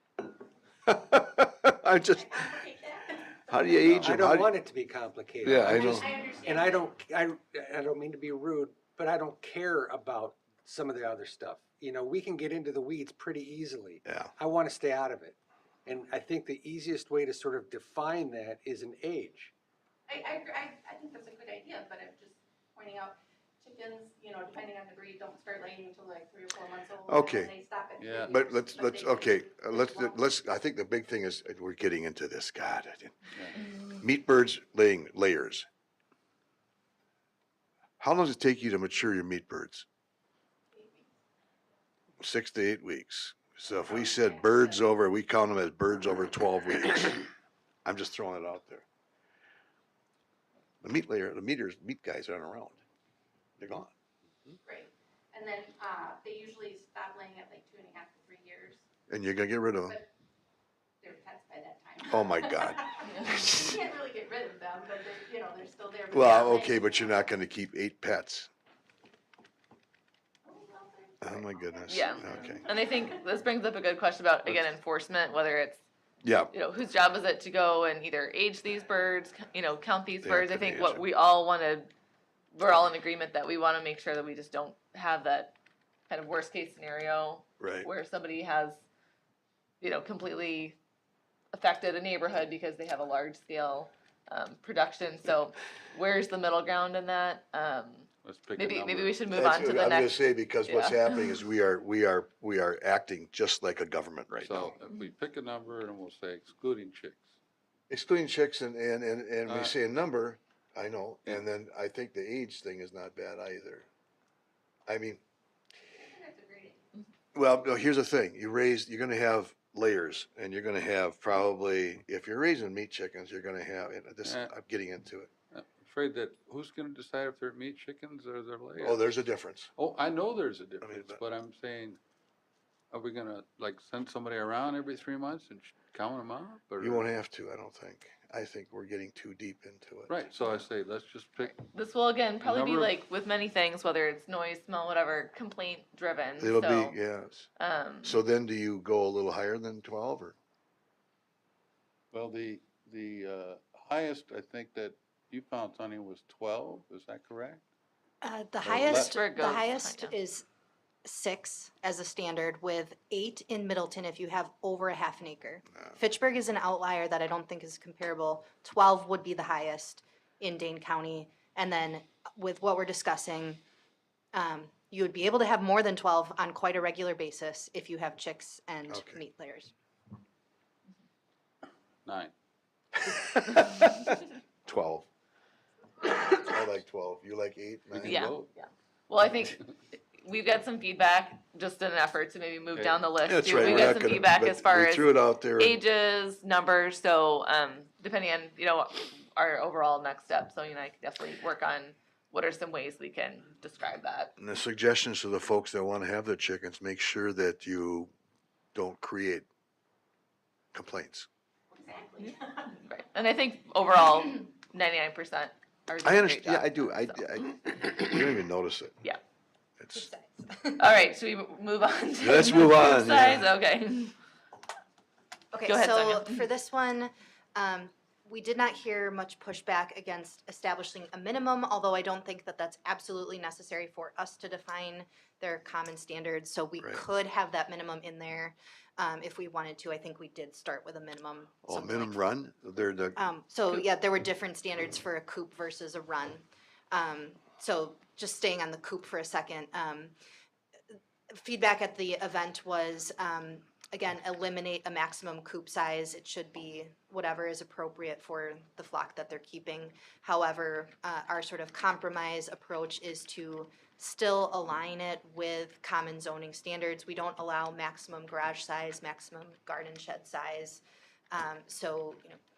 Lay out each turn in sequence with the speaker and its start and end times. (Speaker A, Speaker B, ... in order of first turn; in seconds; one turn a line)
Speaker A: 0.9-2.6
Speaker B: 2.1-4.0
Speaker A: 3.5-4.5
Speaker C: 4.0-19.5
Speaker A: 5.4-6.1
Speaker B: 5.7-6.9
Speaker A: 14.1-14.3
Speaker B: 20.1-30.3
Speaker A: 27.1-27.5
Speaker D: 28.0-28.4
Speaker A: 28.3-33.2
Speaker A: 33.7-35.6
Speaker A: 38.0-39.9
Speaker B: 40.7-41.1
Speaker A: 42.2-47.3
Speaker B: 43.8-44.8
Speaker A: 47.8-48.8
Speaker A: 50.8-52.8
Speaker A: 53.6-53.9
Speaker B: 54.6-58.8
Speaker A: 59.1-60.0
Speaker B: 61.0-67.1
Speaker A: 62.1-63.7
Speaker A: 66.1-68.5
Speaker B: 70.4-72.8
Speaker A: 71.2-72.6
Speaker E: 71.9-75.8
Speaker A: 76.2-76.5
Speaker E: 76.5-81.9
Speaker A: 80.2-81.0
Speaker E: 82.5-85.5
Speaker E: 86.1-88.8
Speaker A: 87.6-87.9
Speaker E: 89.8-90.8
Speaker E: 91.5-101.4
Speaker D: 98.2-99.2
Speaker A: 99.3-104.7
Speaker D: 104.3-107.3
Speaker A: 107.9-113.9
Speaker D: 109.4-109.8
Speaker A: 114.9-115.2
Speaker B: 115.9-116.8
Speaker A: 117.3-125.3
Speaker D: 124.2-124.5
Speaker D: 125.5-129.1
Speaker A: 128.8-129.7
Speaker D: 129.8-132.0
Speaker A: 130.8-131.2
Speaker D: 132.9-137.1
Speaker A: 136.8-140.2
Speaker D: 140.1-141.6
Speaker E: 141.4-147.0
Speaker D: 142.4-142.9
Speaker A: 146.4-147.5
Speaker E: 147.6-148.2
Speaker A: 148.0-150.4
Speaker D: 152.1-157.6
Speaker F: 158.2-160.4
Speaker D: 158.6-159.2
Speaker E: 158.9-160.1
Speaker F: 161.0-173.6
Speaker F: 174.3-179.7
Speaker A: 178.9-179.2
Speaker D: 182.0-182.3
Speaker A: 183.0-185.1
Speaker A: 186.3-188.2
Speaker D: 187.9-188.5
Speaker E: 188.0-204.3
Speaker A: 193.2-195.8
Speaker D: 193.5-194.0
Speaker A: 204.4-208.1
Speaker A: 208.7-209.5
Speaker A: 210.7-211.3
Speaker B: 211.7-212.7
Speaker E: 212.2-217.5
Speaker A: 216.0-219.0
Speaker A: 219.8-220.1
Speaker F: 219.9-220.8
Speaker E: 220.8-224.1
Speaker A: 222.2-223.5
Speaker F: 225.5-242.2
Speaker E: 225.7-226.4
Speaker A: 241.6-243.2
Speaker F: 243.2-250.1
Speaker F: 251.3-272.4